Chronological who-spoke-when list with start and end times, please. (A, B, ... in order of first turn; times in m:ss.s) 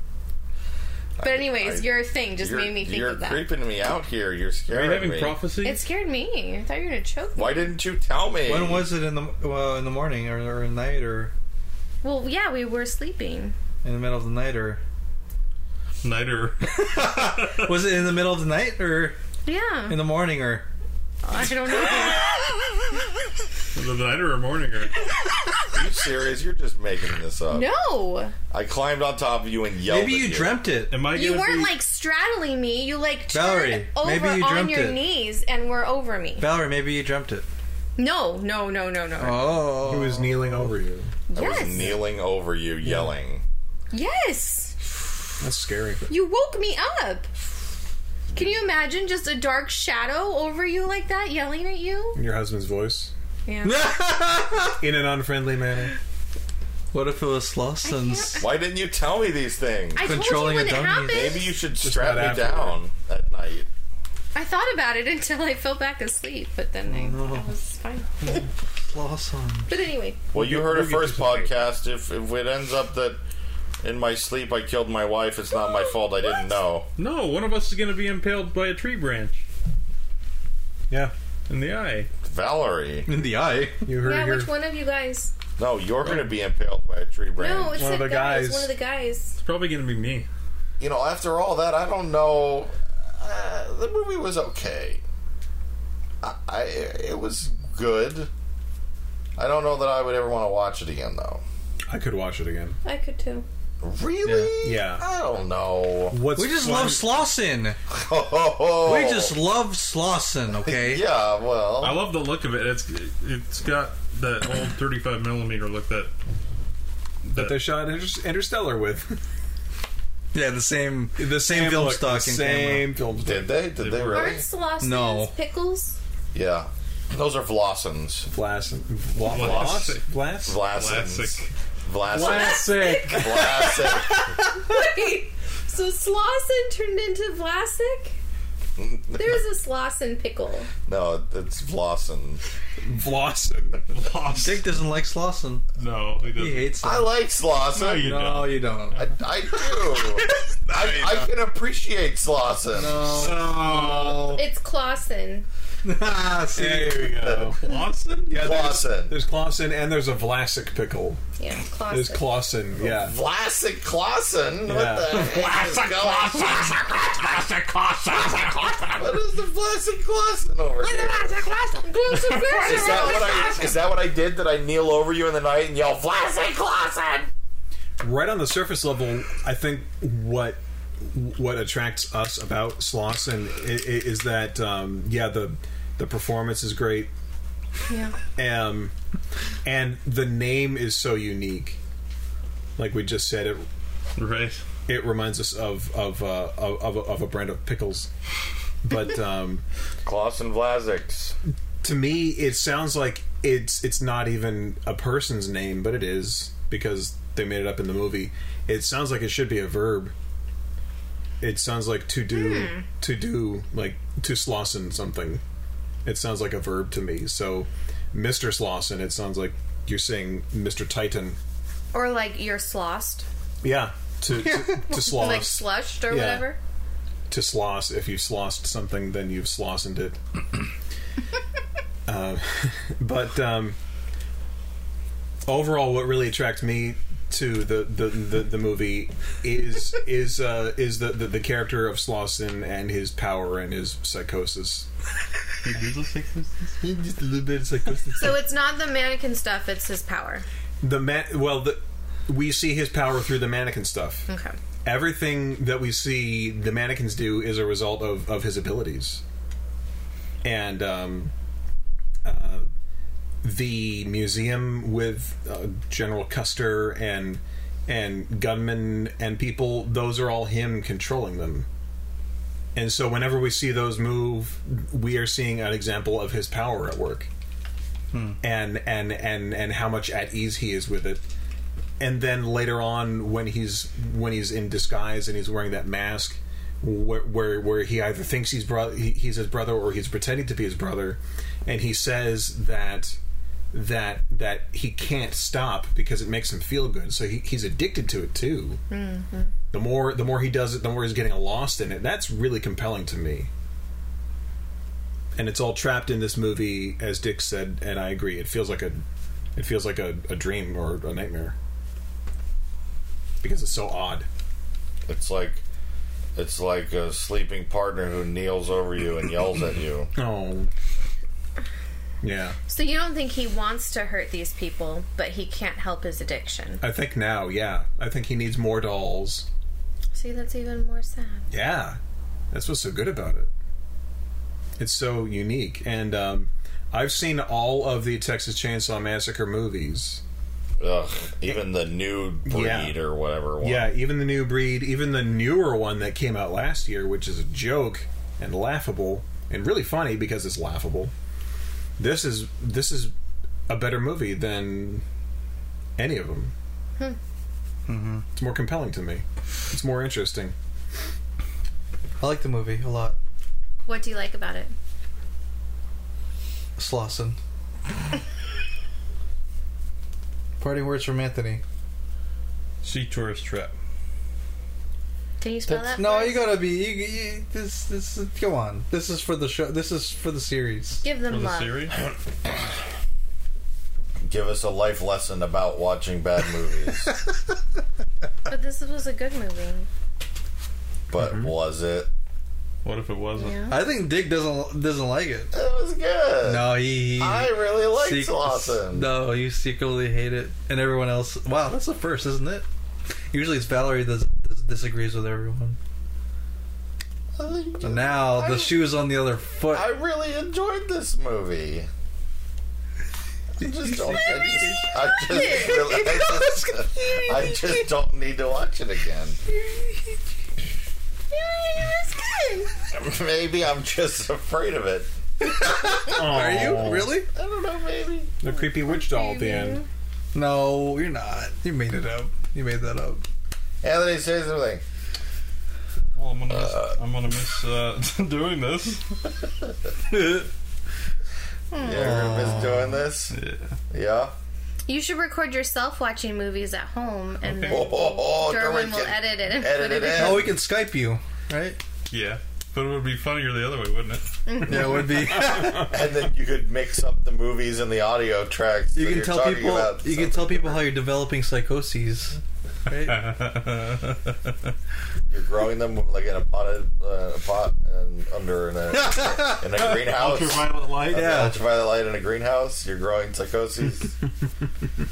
0:01.2-0:05.4 A
0:01.2-0:03.5 B
0:04.7-0:05.8 C
0:05.6-0:07.7 B
0:07.4-0:08.9 A
0:08.5-0:11.3 D
0:12.0-0:13.6 B
0:13.8-0:14.8 D
0:16.0-0:17.7 C
0:16.8-0:19.2 D
0:19.4-0:20.0 B
0:19.9-0:20.7 D
0:21.2-0:22.4 B
0:23.7-0:25.0 C
0:25.7-0:27.7 A
0:27.5-0:28.3 B
0:28.5-0:30.7 A
0:29.9-0:31.0 D
0:30.9-0:31.8 C
0:31.1-0:36.5 B
0:33.3-0:35.0 D
0:36.4-0:37.5 D
0:38.0-0:39.7 B
0:39.2-0:40.6 D
0:39.8-0:41.1 E
0:41.3-0:41.9 B
0:41.3-0:43.4 A
0:43.9-0:44.7 B
0:45.4-0:46.1 E
0:46.1-0:47.3 B
0:48.4-0:52.2 B
0:52.2-0:53.1 E
0:53.5-0:53.8 B
0:53.6-0:54.8 D
0:54.8-0:56.0 E
0:56.9-0:58.4 D
0:57.8-0:58.5 B
0:58.4-1:00.1 A
1:00.0-1:01.6 B
1:00.0-1:01.4 D
1:01.1-1:03.7 A
1:01.8-1:02.8 E
1:04.3-1:08.4 B
1:06.9-1:07.5 D
1:08.3-1:09.7 D
1:09.7-1:10.3 B
1:10.3-1:13.2 A
1:10.4-1:11.5 E
1:13.8-1:16.9 A
1:15.6-1:16.4 B
1:17.0-1:19.4 C
1:21.5-1:22.1 C
1:22.2-1:23.1 A
1:23.1-1:23.9 D
1:23.9-1:24.5 E
1:24.0-1:25.3 B
1:25.6-1:27.8 A
1:27.4-1:29.4 B
1:27.8-1:28.7 E
1:29.4-1:30.3 C
1:30.8-1:35.0 A
1:36.2-1:38.3 A
1:39.4-1:41.4 A
1:41.9-1:42.8 E
1:42.8-1:43.5 B
1:43.8-1:46.2 A
1:44.2-1:44.5 D
1:44.6-1:45.0 E
1:46.1-1:47.1 E
1:46.3-1:47.8 D
1:47.9-1:49.4 A
1:48.8-1:51.0 D
1:50.6-1:52.0 A
1:51.8-1:56.1 C
1:57.2-1:57.6 C
1:57.3-1:59.2 E
2:00.3-2:02.9 D
2:01.2-2:03.6 E
2:03.2-2:04.4 A
2:03.8-2:04.4 C
2:04.1-2:06.0 B
2:04.8-2:05.4 D
2:06.3-2:08.3 A
2:08.3-2:10.6 E
2:09.2-2:10.1 C
2:09.3-2:09.9 A
2:10.4-2:14.4 A
2:10.6-2:11.5 C
2:12.1-2:13.6 E
2:12.1-2:13.6 B
2:13.2-2:14.6 D
2:14.4-2:18.2 B
2:18.8-2:19.4 A
2:19.1-2:20.7 B
2:20.9-2:22.4 A
2:22.8-2:23.8 E
2:23.9-2:24.7 C
2:24.3-2:25.6 D
2:25.8-2:26.8 C
2:26.4-2:27.1 D
2:26.8-2:28.2 A
2:27.7-2:29.0 C
2:28.0-2:29.1 D
2:29.0-2:33.3 A
2:32.7-2:34.1 D
2:33.2-2:34.4 C
2:34.3-2:35.5 B
2:35.8-2:37.2 D
2:36.6-2:37.6 E
2:37.2-2:37.6 A
2:37.6-2:38.5 C
2:38.3-2:41.2 E
2:38.3-2:39.2 A
2:41.4-2:42.4 B
2:41.9-2:43.2 E
2:42.8-2:51.4 A
2:44.7-2:45.3 E
2:45.3-2:46.7 C
2:47.4-2:48.1 C
2:50.8-2:53.8 B
2:52.2-2:52.8 C
2:52.5-2:57.3 A
2:58.0-3:07.1 E
3:07.9-3:08.2 B
3:08.4-3:08.9 E
3:09.6-3:11.8 E
3:12.8-3:13.7 E
3:14.2-3:14.6 C
3:14.9-3:18.1 E
3:18.8-3:19.6 E
3:20.0-3:21.4 A
3:21.8-3:30.1 E
3:31.4-3:35.4 E
3:32.3-3:32.9 B
3:36.0-3:41.4 E
3:41.9-3:43.2 B
3:43.6-3:46.5 E
3:44.4-3:44.8 D
3:44.8-3:46.6 B
3:47.3-3:50.6 E
3:52.1-3:53.8 E
3:55.4-4:04.9 E
4:05.6-4:06.8 C
4:06.8-4:08.4 D
4:08.2-4:10.4 B
4:10.8-4:14.2 E
4:14.3-4:14.6 B
4:14.8-4:19.2 E
4:20.4-4:21.3 E
4:22.2-4:22.7 E
4:23.4-4:31.7 E
4:32.8-4:37.3 E
4:38.4-4:41.2 E
4:42.0-4:53.2 E
4:53.7-4:58.8 E
4:58.9-4:59.5 B
4:59.7-5:03.5 E
5:05.4-5:09.0 E
5:09.6-5:11.6 E
5:13.4-5:14.3 E
5:15.1-5:15.6 A
5:16.4-5:20.1 A
5:20.2-5:20.7 E
5:22.2-5:22.6 E
5:22.7-5:26.8 B
5:26.8-5:29.5 E
5:30.1-5:31.5 B
5:31.5-5:32.0 E
5:32.5-5:33.5 E
5:34.8-5:40.2 E
5:40.8-5:43.9 A
5:42.4-5:43.0 E
5:43.6-5:51.1 E
5:52.0-5:53.1 E
5:53.7-5:55.0 E
5:56.0-5:56.5 E
5:57.9-5:58.2 C
5:58.4-6:00.6 E
6:02.2-6:03.2 D
6:03.9-6:04.7 B
6:06.8-6:07.4 D
6:10.6-6:11.6 D
6:12.8-6:13.7 C
6:15.4-6:16.5 B
6:15.7-6:21.0 D
6:21.0-6:21.9 B
6:21.3-6:22.0 C
6:22.0-6:22.6 A
6:24.2-6:27.1 A
6:28.5-6:29.9 B
6:31.1-6:32.1 A
6:31.2-6:31.5 E
6:32.8-6:33.6 C
6:33.3-6:33.8 B
6:33.7-6:35.5 D
6:35.5-6:39.1 A
6:36.4-6:42.6 D
6:43.3-6:45.8 D
6:47.4-6:48.5 A
6:47.8-6:49.9 D
6:49.7-6:51.9 A
6:53.6-6:59.4 A
6:53.6-6:54.8 D
6:55.1-6:57.8 B
6:55.9-6:56.3 D
6:59.5-7:00.2 B
7:01.3-7:02.8 B
7:02.9-7:05.1 A
7:05.4-7:07.3 D
7:06.1-7:07.2 E
7:06.8-7:08.3 A
7:08.4-7:09.8 E
7:08.8-7:09.9 B
7:10.3-7:13.2 D
7:13.8-7:14.8 A
7:16.2-7:19.2 C
7:16.5-7:17.0 A
7:20.1-7:20.5 D
7:21.7-7:22.6 B
7:21.8-7:23.4 A
7:21.9-7:23.0 D
7:23.3-7:23.8 C
7:23.9-7:24.3 A
7:24.9-7:30.5 B
7:27.4-7:27.9 C
7:27.7-7:30.6 A
7:30.1-7:31.8 D
7:32.1-7:34.3 C
7:34.5-7:35.2 B
7:34.6-7:35.9 D
7:35.4-7:40.9 A
7:39.0-7:43.3 D
7:42.9-7:44.6 C
7:45.3-7:54.2 A
7:48.9-7:49.7 D
7:49.7-7:51.2 C
7:51.1-7:51.6 D